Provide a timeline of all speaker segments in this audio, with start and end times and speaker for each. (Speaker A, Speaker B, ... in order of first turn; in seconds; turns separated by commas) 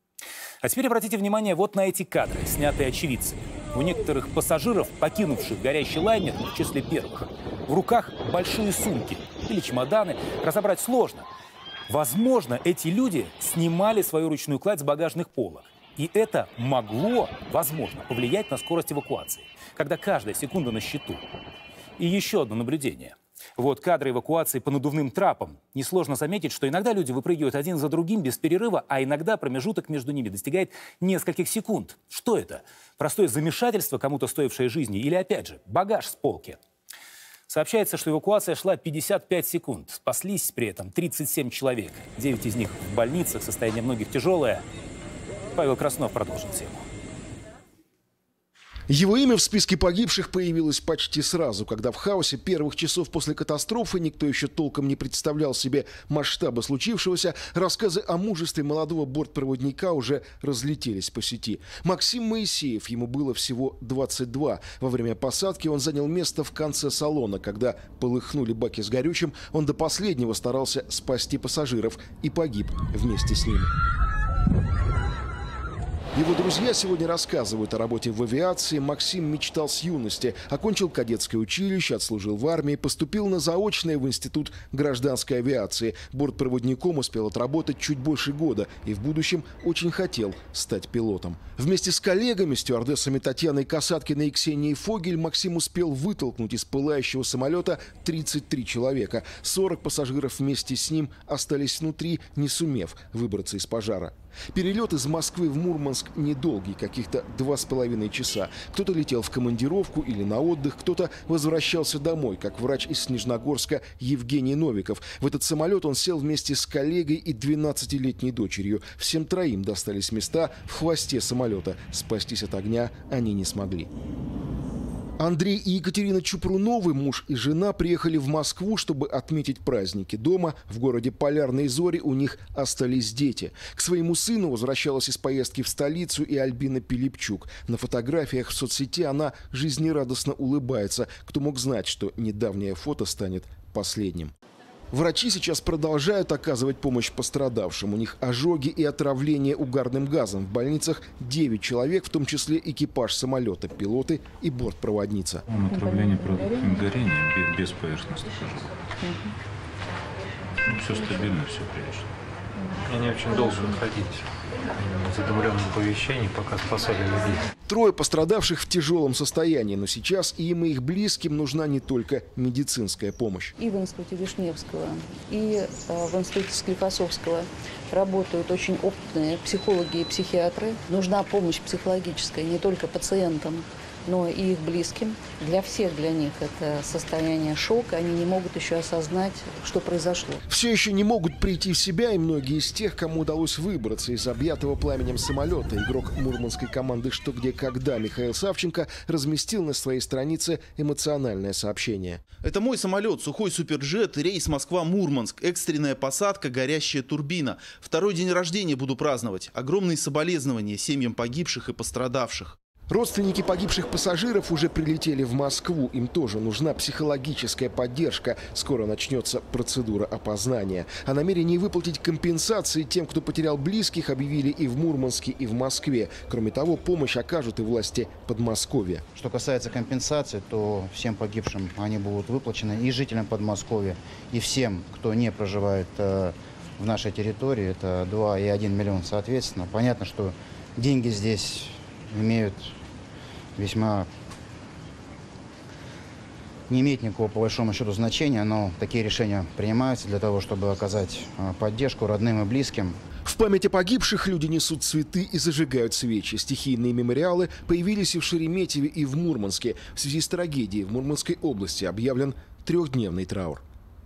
Speaker A: 0.6-11.3, Speaker A: 11.9-21.2, Speaker A: 22.0-36.6, Speaker A: 37.5-44.6, Speaker A: 45.5-46.9, Speaker B: 48.9-73.7, Speaker B: 76.1-123.9, Speaker B: 125.2-144.3, Speaker B: 144.9-155.4, Speaker C: 155.5-158.8, Speaker D: 155.7-156.6, Speaker D: 159.0-159.3, Speaker C: 160.6-162.1, Speaker E: 162.8-167.4, Speaker B: 167.7-173.5, Speaker D: 173.6-190.4, Speaker B: 190.5-202.2, Speaker F: 202.4-212.6, Speaker B: 212.9-229.0, Speaker G: 229.2-242.7, Speaker G: 243.6-244.1, Speaker G: 246.7-252.9, Speaker B: 253.2-263.6